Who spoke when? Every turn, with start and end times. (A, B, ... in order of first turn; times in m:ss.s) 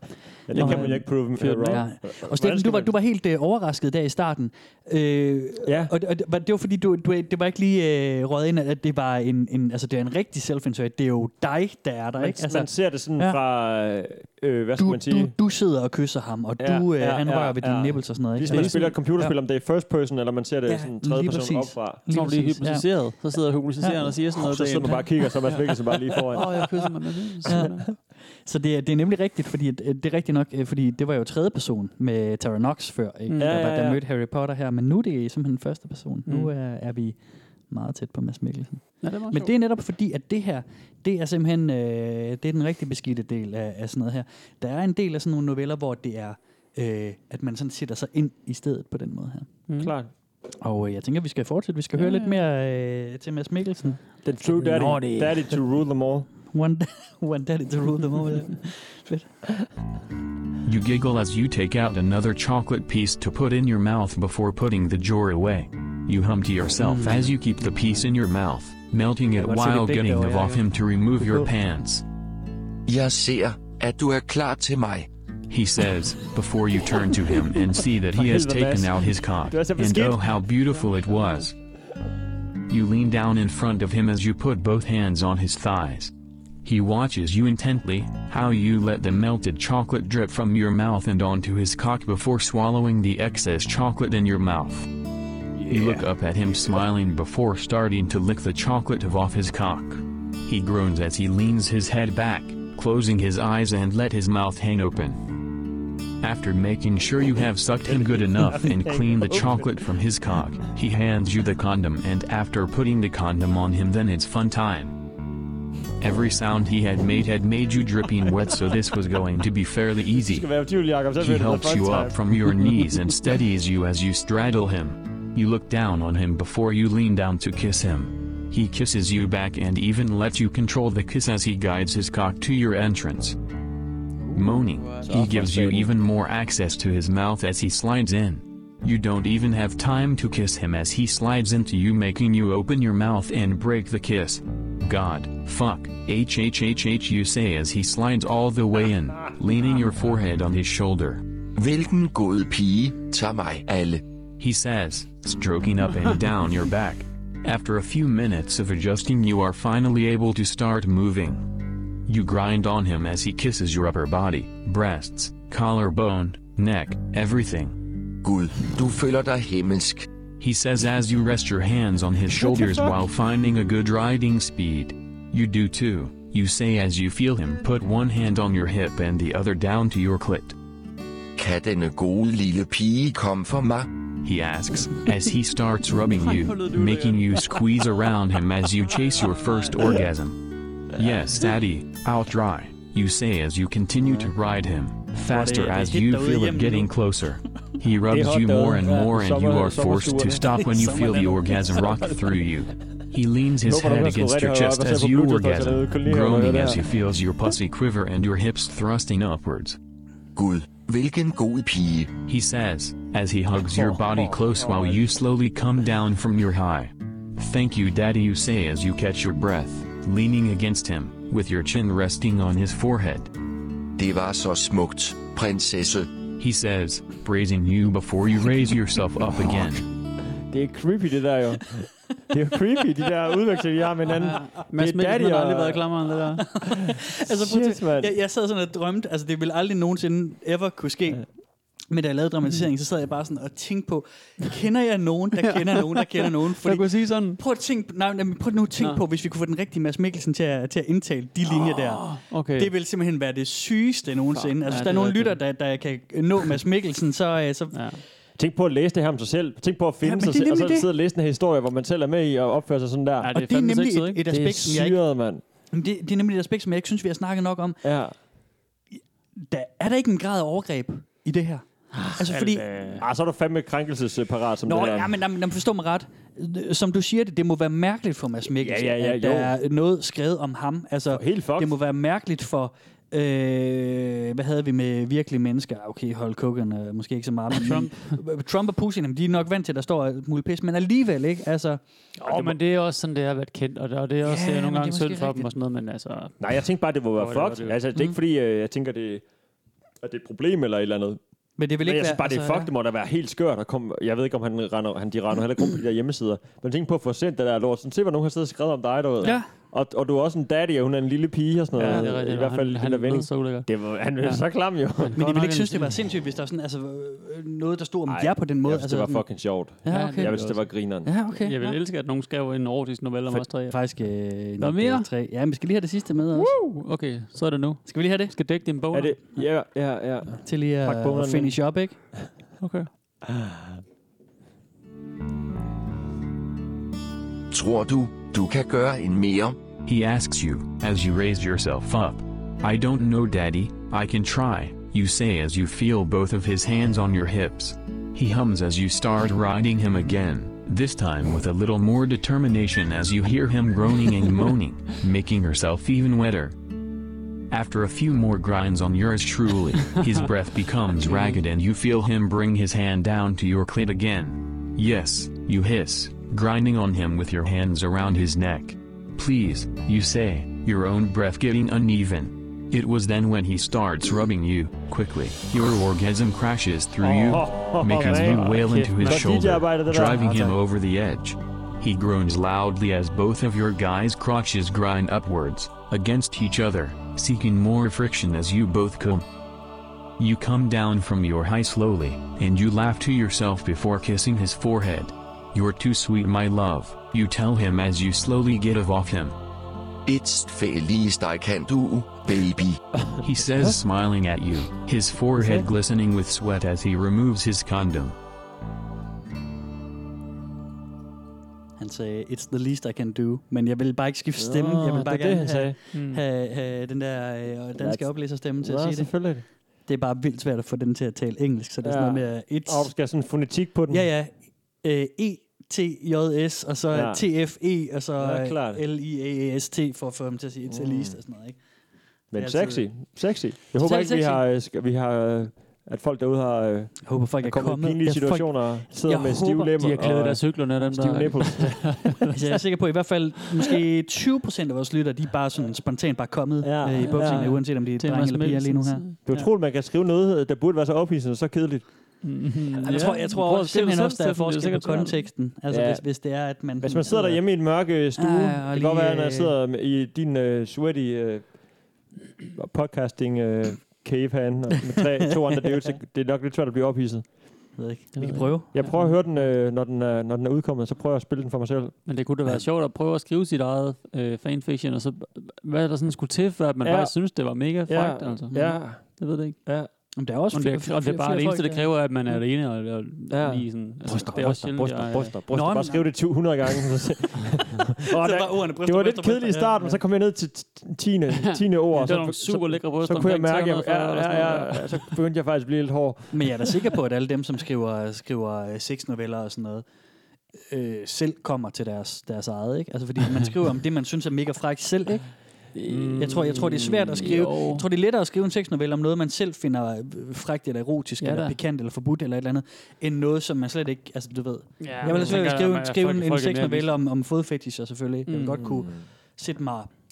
0:00.5-0:03.0 A
0:00.5-0:01.9 B
0:00.6-0:13.4 C
0:05.6-0:05.9 A
0:12.2-0:15.4 A
0:14.8-0:19.3 C
0:16.6-0:22.0 A
0:18.5-0:19.0 B
0:20.7-0:23.1 C
0:22.1-0:25.1 B
0:23.8-0:24.2 C
0:24.3-0:26.7 A
0:26.3-0:27.9 B
0:27.5-0:49.5 C
0:33.4-0:34.0 A
0:39.0-0:39.6 B
0:49.7-0:49.9 B
0:49.8-0:50.1 A
0:50.6-0:55.5 C
0:52.0-0:52.5 B
0:54.2-0:56.3 A
0:56.5-0:59.3 C
1:00.6-1:12.0 D
1:06.8-1:07.3 C
1:09.4-1:10.6 C
1:12.9-1:15.1 E
1:15.5-1:21.5 D
1:18.0-1:20.3 A
1:22.7-1:26.1 D
1:26.6-1:34.9 D
1:35.7-1:45.3 D
1:46.2-1:55.0 D
1:47.9-1:49.8 A
1:56.0-2:00.5 D
2:00.2-2:02.2 A
2:01.2-2:13.4 D
2:14.3-2:31.2 D
2:15.0-2:15.9 A
2:31.6-2:34.0 E
2:34.4-2:47.9 D
2:48.1-2:50.1 E
2:50.4-3:00.6 D
2:52.4-2:53.0 A
3:01.4-3:04.1 E
3:04.2-3:29.8 D
3:06.1-3:07.5 B
3:14.0-3:14.3 C
3:15.3-3:16.9 C
3:18.1-3:21.2 A
3:20.6-3:21.6 C
3:23.6-3:26.8 A
3:30.4-3:32.2 E
3:32.2-3:43.3 D
3:33.7-3:35.2 A
3:43.9-3:46.2 E
3:46.4-3:49.9 D
3:50.5-3:55.9 A
3:54.2-3:56.6 B
3:56.5-4:01.3 C
3:56.8-3:58.2 A
4:01.9-4:18.0 C
4:05.4-4:07.4 B
4:11.5-4:12.7 B
4:14.4-4:15.4 B
4:17.7-4:18.0 B
4:18.4-4:23.3 A
4:20.0-4:20.9 C
4:23.2-4:24.6 B
4:23.3-4:25.0 C
4:24.3-4:25.4 A
4:25.7-4:27.8 C
4:27.8-4:28.2 A
4:29.4-4:32.7 C
4:31.9-4:33.1 B
4:33.0-4:35.2 A
4:34.7-4:51.8 C
4:38.4-4:39.5 A
4:41.1-4:41.8 A
4:47.5-4:48.2 B
4:52.2-4:56.5 B
4:52.2-4:52.6 A
4:54.2-4:55.5 C
4:56.4-4:59.2 A
4:57.2-4:57.8 B
5:00.0-5:01.2 A
5:01.6-5:02.7 C
5:01.8-5:15.2 A
5:09.2-5:09.5 C
5:11.8-5:12.1 C
5:11.8-5:14.4 B
5:15.0-5:16.0 B
5:15.2-5:19.3 C
5:18.1-5:21.1 A
5:19.8-5:21.8 C
5:19.9-5:23.8 B
5:23.6-5:26.5 C
5:24.6-5:25.1 B
5:26.3-5:29.4 B
5:27.9-5:28.3 C
5:28.9-5:31.6 A
5:30.4-5:32.0 C
5:32.6-5:32.9 B
5:33.2-5:33.8 A
5:37.5-5:39.6 E
5:39.8-5:56.6 D
5:57.5-6:29.3 D
6:17.0-6:20.2 A
6:20.1-6:20.6 C
6:30.2-6:39.4 D
6:40.0-6:42.8 E
6:43.2-6:48.2 D
6:45.4-6:45.7 A
6:51.8-7:02.9 C
6:54.4-6:55.8 A
6:55.9-6:56.2 B
6:57.8-6:59.4 A
7:01.8-7:04.1 A
7:03.9-7:11.6 C
7:06.9-7:07.3 A
7:08.2-7:08.8 A
7:10.7-7:11.2 A
7:12.3-7:22.2 A
7:12.3-7:12.9 C
7:13.8-7:14.4 C
7:17.0-7:19.7 C
7:19.8-7:22.6 B
7:22.3-7:29.5 C
7:26.6-7:27.6 A
7:27.2-7:29.3 B
7:29.3-7:31.8 A
7:32.2-7:35.3 B
7:32.8-7:39.6 C
7:35.7-7:36.1 A
7:36.8-7:41.6 A
7:42.6-7:47.5 A
7:47.8-7:49.1 C
7:48.2-7:49.1 B
7:48.7-7:52.0 A
7:52.1-7:59.6 B
7:56.8-7:57.2 A
7:57.9-7:59.9 A
8:00.2-8:01.9 C
8:00.5-8:05.4 B
8:03.3-8:16.7 A
8:04.1-8:04.7 C
8:05.5-8:06.1 C
8:08.1-8:10.0 C
8:11.4-8:15.2 B
8:16.3-8:19.8 C
8:20.7-8:25.3 C
8:25.8-8:27.8 B
8:25.9-8:26.2 A
8:26.2-8:39.9 C
8:31.2-8:31.6 B
8:34.8-8:37.0 B
8:35.1-8:35.4 A
8:38.3-8:38.6 B
8:38.6-8:39.0 A